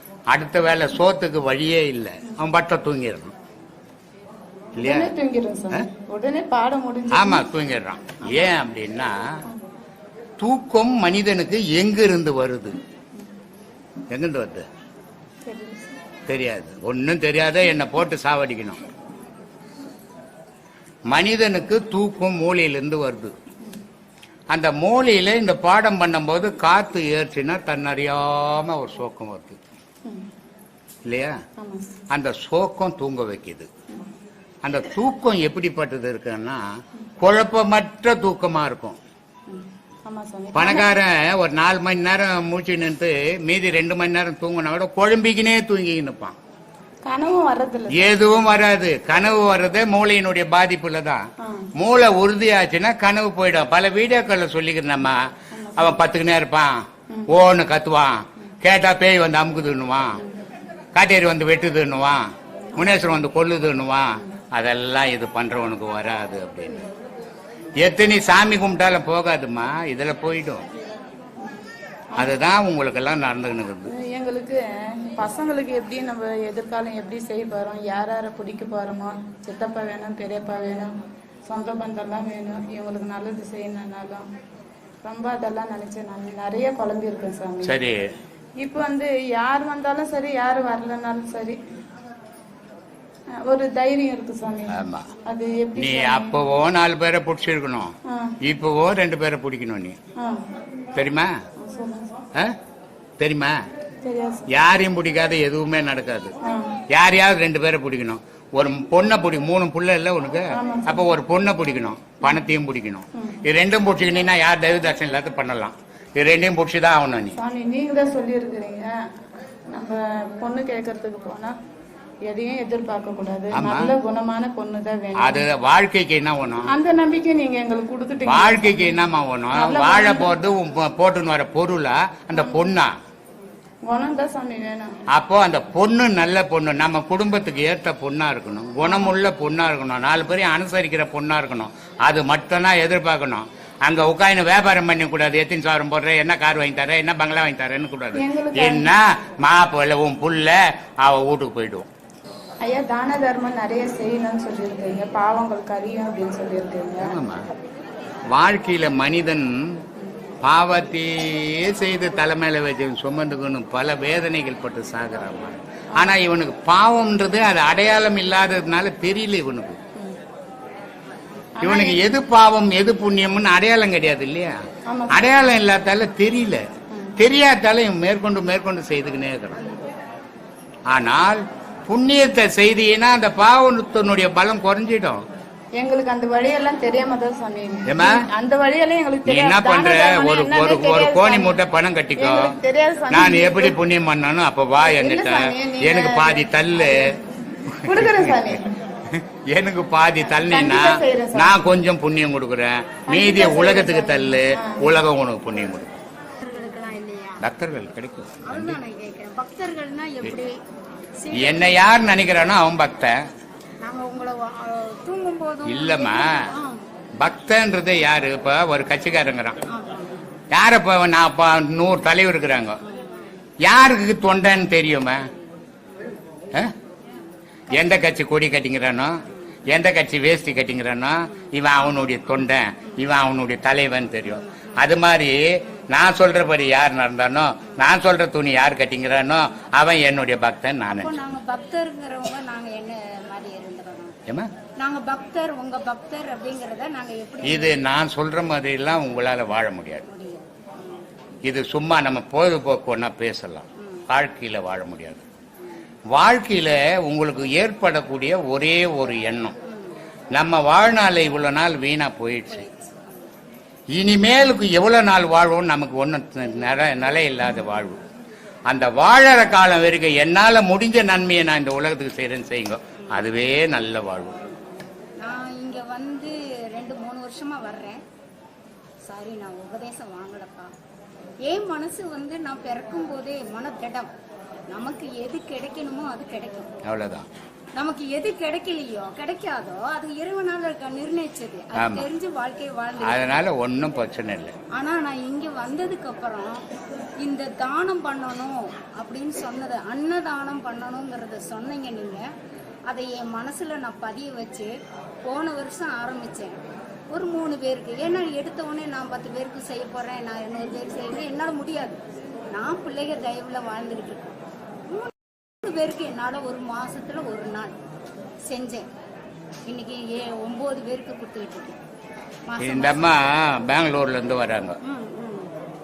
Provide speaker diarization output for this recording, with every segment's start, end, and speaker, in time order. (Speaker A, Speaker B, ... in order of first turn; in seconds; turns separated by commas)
Speaker A: 0.3-3.4, Speaker A: 4.8-5.1, Speaker B: 4.8-7.5, Speaker A: 7.1-9.4, Speaker A: 10.4-12.8, Speaker A: 14.1-14.7, Speaker B: 15.4-15.8, Speaker A: 16.3-18.8, Speaker A: 21.1-23.4, Speaker A: 24.5-29.6, Speaker A: 31.1-31.4, Speaker B: 31.6-31.9, Speaker A: 32.1-33.7, Speaker A: 34.6-36.7, Speaker A: 37.2-39.0, Speaker B: 39.5-41.0, Speaker A: 40.5-46.4, Speaker B: 47.0-48.1, Speaker A: 47.9-60.2, Speaker B: 51.4-51.7, Speaker B: 55.5-56.0, Speaker A: 61.0-66.8, Speaker B: 62.8-63.0, Speaker A: 67.8-70.7, Speaker A: 72.2-73.9, Speaker B: 73.9-80.9, Speaker B: 81.5-84.3, Speaker B: 85.0-87.7, Speaker A: 87.6-88.1, Speaker B: 88.6-91.6, Speaker B: 93.3-96.4, Speaker A: 94.7-95.1, Speaker A: 95.8-100.0, Speaker B: 98.1-98.4, Speaker B: 100.2-100.5, Speaker A: 101.0-101.3, Speaker B: 101.6-102.1, Speaker A: 103.2-103.6, Speaker B: 104.0-104.5, Speaker A: 104.5-106.3, Speaker B: 106.4-106.7, Speaker A: 106.9-117.4, Speaker B: 110.5-111.0, Speaker B: 117.4-119.0, Speaker B: 119.7-121.6, Speaker B: 122.2-125.5, Speaker A: 123.5-123.9, Speaker A: 125.2-126.7, Speaker B: 126.7-129.0, Speaker A: 128.2-132.9, Speaker B: 129.5-130.4, Speaker B: 132.4-132.6, Speaker B: 133.9-135.0, Speaker A: 135.1-151.9, Speaker B: 138.8-139.1, Speaker B: 148.2-148.9, Speaker B: 152.6-157.2, Speaker A: 157.0-157.5, Speaker A: 158.3-159.8, Speaker A: 160.4-169.8, Speaker B: 171.6-172.0, Speaker A: 171.6-176.6, Speaker B: 174.9-175.2, Speaker A: 177.2-179.6, Speaker A: 180.9-185.2, Speaker B: 185.8-191.6, Speaker A: 187.9-188.2, Speaker A: 189.3-192.6, Speaker B: 192.2-193.8, Speaker A: 193.1-206.0, Speaker B: 194.8-197.2, Speaker B: 197.8-198.7, Speaker B: 200.5-201.5, Speaker B: 203.1-204.8, Speaker C: 206.4-207.4, Speaker A: 207.4-208.8, Speaker C: 208.4-210.6, Speaker C: 211.2-211.8, Speaker A: 211.3-213.2, Speaker C: 213.8-216.8, Speaker A: 215.7-216.5, Speaker A: 217.2-219.6, Speaker C: 219.7-220.2, Speaker A: 220.5-222.8, Speaker C: 222.8-223.3, Speaker A: 223.7-225.3, Speaker A: 227.7-241.4, Speaker C: 240.9-244.2, Speaker C: 244.8-247.8, Speaker A: 247.4-250.1, Speaker C: 250.1-251.0, Speaker A: 251.4-255.2, Speaker C: 253.8-254.0, Speaker A: 256.1-259.6, Speaker C: 259.7-259.9, Speaker A: 260.4-262.7, Speaker C: 262.5-263.2, Speaker A: 263.9-268.0, Speaker A: 268.7-274.4, Speaker C: 275.2-278.0, Speaker C: 279.0-280.7, Speaker C: 281.4-284.1, Speaker C: 284.7-286.7, Speaker A: 286.8-287.3, Speaker C: 287.8-293.4, Speaker A: 291.8-292.1, Speaker A: 293.0-294.6, Speaker C: 294.7-296.6, Speaker C: 297.2-302.2, Speaker C: 302.9-304.7, Speaker C: 305.2-306.6, Speaker C: 307.1-312.0, Speaker C: 312.5-317.7, Speaker C: 318.5-318.9, Speaker C: 319.7-321.8, Speaker C: 322.5-323.1, Speaker A: 322.6-324.8, Speaker C: 324.8-325.5